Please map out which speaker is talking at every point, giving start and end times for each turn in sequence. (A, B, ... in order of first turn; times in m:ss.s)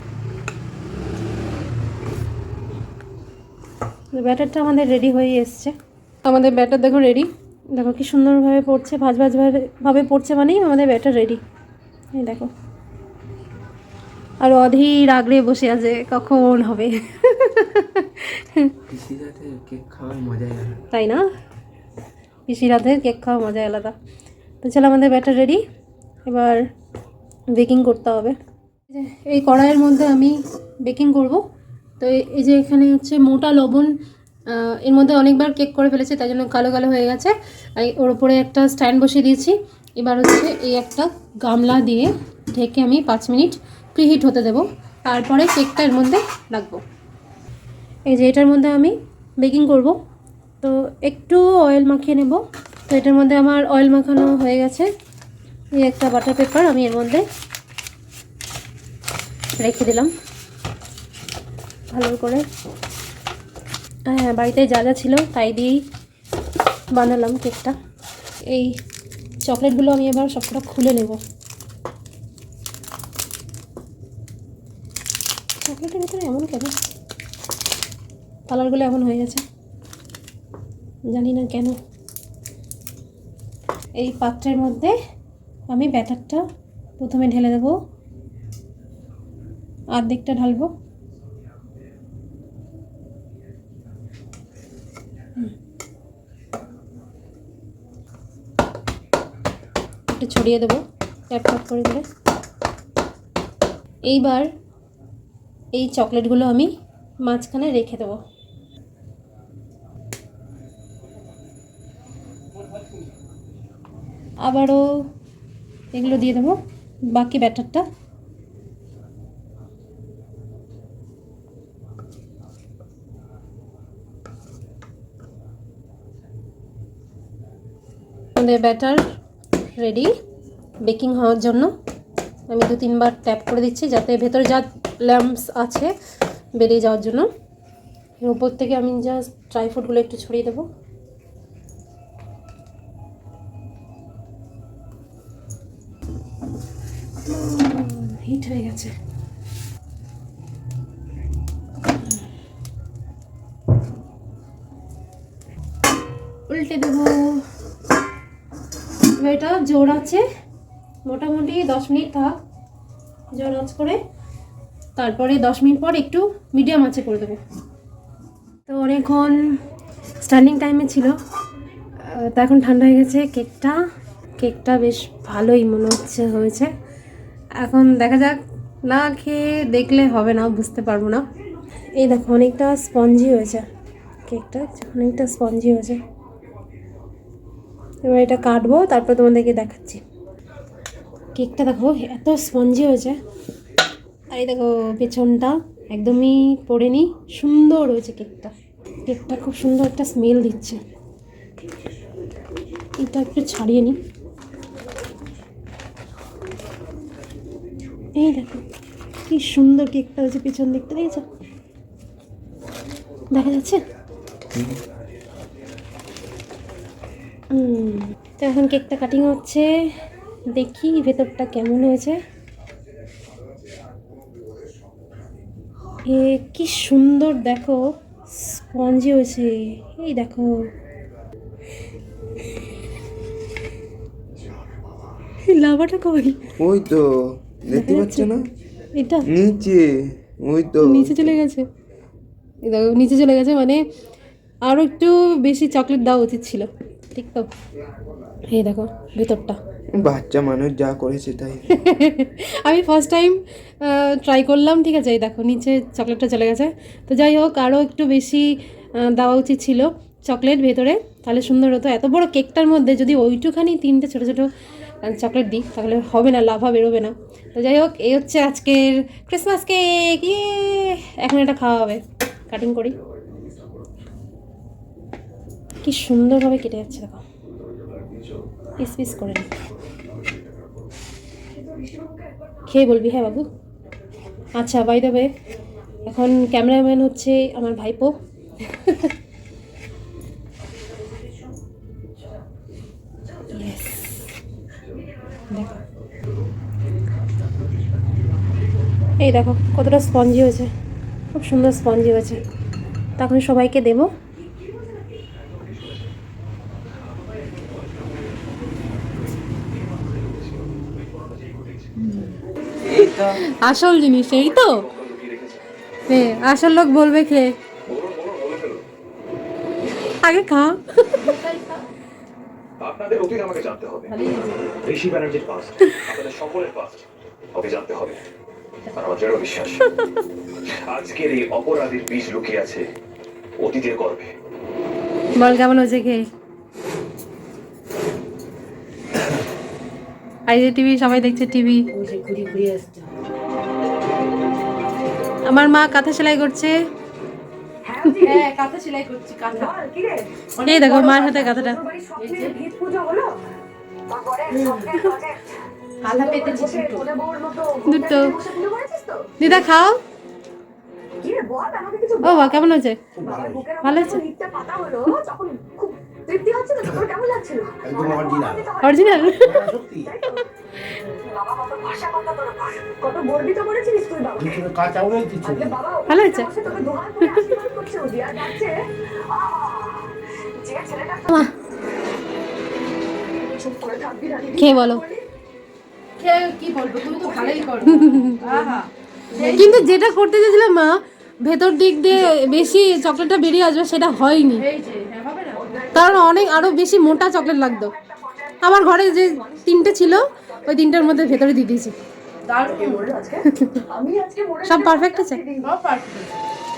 0:04.1-0:05.7 A
0:06.2-0:11.4 A
0:12.1-0:12.5 A
0:14.4-0:18.7 A
0:18.9-0:20.8 B
0:20.9-0:21.2 A
0:22.5-0:23.9 A
0:24.6-0:25.6 A
0:26.2-0:26.6 A
0:27.5-0:28.4 A
0:28.9-0:31.4 A
0:32.0-0:33.9 A
0:34.5-0:46.8 A
0:48.1-0:50.0 A
0:50.6-0:54.9 A
0:55.8-0:57.2 A
0:59.6-1:00.1 A
1:01.9-1:02.4 A
1:04.1-1:05.8 A
1:06.9-1:07.8 A
1:08.4-1:08.8 A
1:09.4-1:11.2 A
1:15.6-1:16.8 A
1:18.5-1:19.4 A
1:21.1-1:21.8 A
1:24.0-1:24.9 A
1:25.7-1:26.4 A
1:27.0-1:27.8 A
1:29.9-1:30.7 A
1:40.1-1:42.0 A
1:44.0-1:44.5 A
1:45.7-1:46.7 A
1:47.2-1:48.2 A
1:54.4-1:55.0 A
1:55.9-1:56.6 A
1:57.1-1:57.8 A
2:08.3-2:09.0 A
2:09.8-2:10.1 A
2:10.8-2:11.7 A
2:12.5-2:15.9 A
2:16.6-2:17.3 A
2:18.2-2:20.7 A
2:27.2-2:28.9 A
2:36.5-2:37.4 A
2:39.2-2:40.2 A
2:41.0-2:42.4 A
2:43.3-2:44.0 A
2:45.0-2:47.4 A
2:48.7-2:49.4 A
2:50.2-2:51.1 A
2:52.0-2:53.8 A
2:54.4-2:56.7 A
2:57.6-3:01.2 A
3:02.0-3:03.6 A
3:04.3-3:06.0 A
3:08.0-3:10.0 A
3:11.4-3:13.2 A
3:14.3-3:18.5 A
3:19.0-3:20.8 A
3:23.0-3:24.0 A
3:28.2-3:28.6 A
3:29.3-3:31.2 A
3:33.3-3:33.8 A
3:34.5-3:34.8 B
3:37.5-3:39.9 A
3:40.5-3:42.2 A
3:46.1-3:50.6 A
3:55.4-3:56.4 A
3:56.6-3:57.1 B
3:57.6-3:58.4 B
3:57.7-3:58.3 A
3:58.9-3:59.3 A
3:59.3-4:01.3 B
4:00.8-4:01.7 A
4:02.6-4:03.8 A
4:04.6-4:07.5 A
4:08.5-4:09.6 A
4:09.9-4:11.7 B
4:11.7-4:24.5 A
4:25.0-4:33.0 A
4:35.8-4:37.2 A
4:38.8-4:39.5 A
4:41.7-4:42.2 C
4:42.7-4:43.4 A
4:44.6-4:45.3 A
4:46.0-4:48.1 A
4:48.7-4:49.1 A
4:53.5-4:54.2 A
4:55.5-4:55.8 A
4:59.2-5:00.7 A
5:01.3-5:02.4 A
5:03.2-5:04.1 A
5:05.6-5:06.0 D
5:07.3-5:08.2 D
5:09.7-5:11.9 D
5:12.0-5:12.4 E
5:12.8-5:13.4 B
5:12.9-5:14.8 A
5:14.4-5:15.6 D
5:16.1-5:17.5 A
5:17.9-5:18.8 D
5:20.2-5:21.2 A
5:21.2-5:21.8 E
5:22.8-5:24.1 D
5:24.1-5:24.7 E
5:24.8-5:28.2 D
5:28.9-5:29.8 D
5:30.7-5:32.9 D
5:33.6-5:34.3 D
5:35.4-5:36.2 A
5:40.5-5:41.8 A
5:41.9-5:43.1 E
5:45.4-5:46.8 A
5:47.8-5:48.4 C
5:48.2-5:49.8 E
5:49.6-5:50.3 C
5:50.6-5:51.6 E
5:50.6-5:51.8 A
5:51.8-5:53.4 C
5:52.1-5:52.6 E
5:54.1-5:55.4 C
5:54.5-5:54.9 E
5:56.0-5:57.1 E
5:56.2-5:59.4 C
5:57.8-5:58.4 A
5:59.4-6:00.0 A
6:01.2-6:02.5 C
6:02.2-6:03.0 A
6:03.2-6:03.6 F
6:03.2-6:09.4 C
6:03.8-6:04.2 A
6:07.9-6:08.6 F
6:08.8-6:09.7 A
6:09.4-6:10.1 F
6:10.0-6:10.4 C
6:11.3-6:14.6 C
6:14.4-6:15.7 F
6:15.4-6:21.2 C
6:16.1-6:16.5 A
6:17.2-6:17.5 A
6:23.6-6:25.2 C
6:24.6-6:25.0 A
6:26.2-6:29.8 E
6:27.8-6:28.4 A
6:29.5-6:34.6 A
6:34.6-6:36.0 E
6:35.8-6:36.4 C
6:35.9-6:37.9 A
6:38.0-6:38.7 C
6:38.6-6:42.0 A
6:39.3-6:39.5 C
6:42.5-6:43.2 E
6:42.8-6:45.6 C
6:43.4-6:43.8 A
6:44.6-6:45.4 A
6:45.6-6:46.4 E